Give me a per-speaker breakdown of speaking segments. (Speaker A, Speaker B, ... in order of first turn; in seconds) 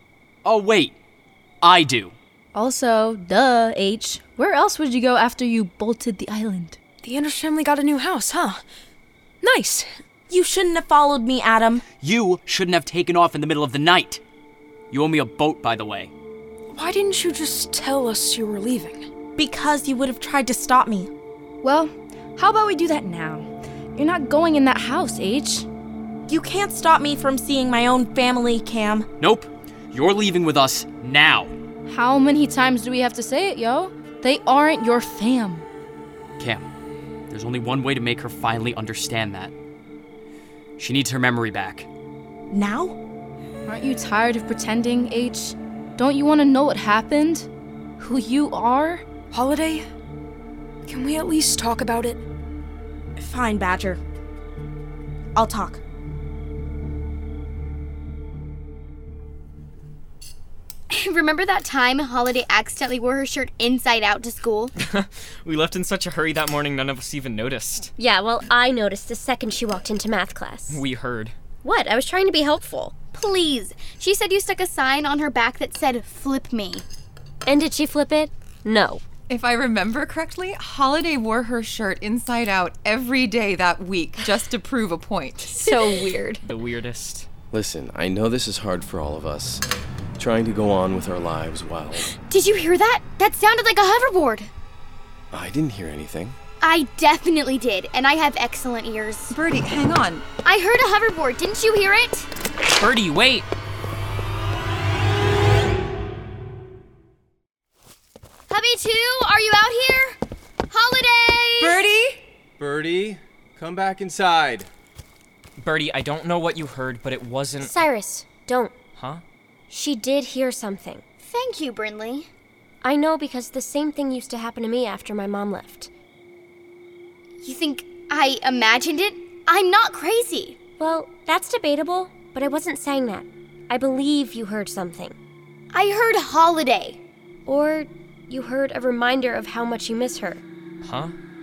Speaker A: 0.4-0.9, 1.6-2.1, 12.0-14.2, 14.9-16.1, 29.2-31.5, 36.4-36.7, 37.3-39.5, 40.8-41.9
Speaker B: 2.5-6.8, 21.6-25.7, 31.9-35.6, 43.7-47.5, 48.0-49.0
Speaker C: 7.0-8.6, 9.4-9.9, 16.7-19.0, 49.3-49.8, 50.8-52.2
Speaker D: 10.3-11.8, 19.4-21.1, 26.3-29.1, 42.5-43.0, 53.2-54.0, 55.3-55.8
Speaker E: 60.9-64.7, 73.1-76.8, 85.4-86.2, 92.2-94.5, 96.6-99.3, 100.4-102.3, 108.5-110.2, 110.7-111.9, 121.2-122.3, 127.4-130.6, 135.7-137.0
Speaker F: 64.8-67.9, 70.7-71.3, 86.4-87.3, 102.7-103.5, 115.6-117.8, 119.0-119.2, 140.8-141.1
Speaker G: 68.0-70.8, 71.6-73.0, 77.5-79.0, 117.6-118.7, 119.7-121.0, 122.8-125.9, 130.8-135.2, 137.4-140.4
Speaker H: 79.3-86.4, 99.3-100.2, 111.8-112.1
Speaker I: 87.5-89.6, 90.2-92.1, 95.3-96.3
Speaker J: 112.6-114.6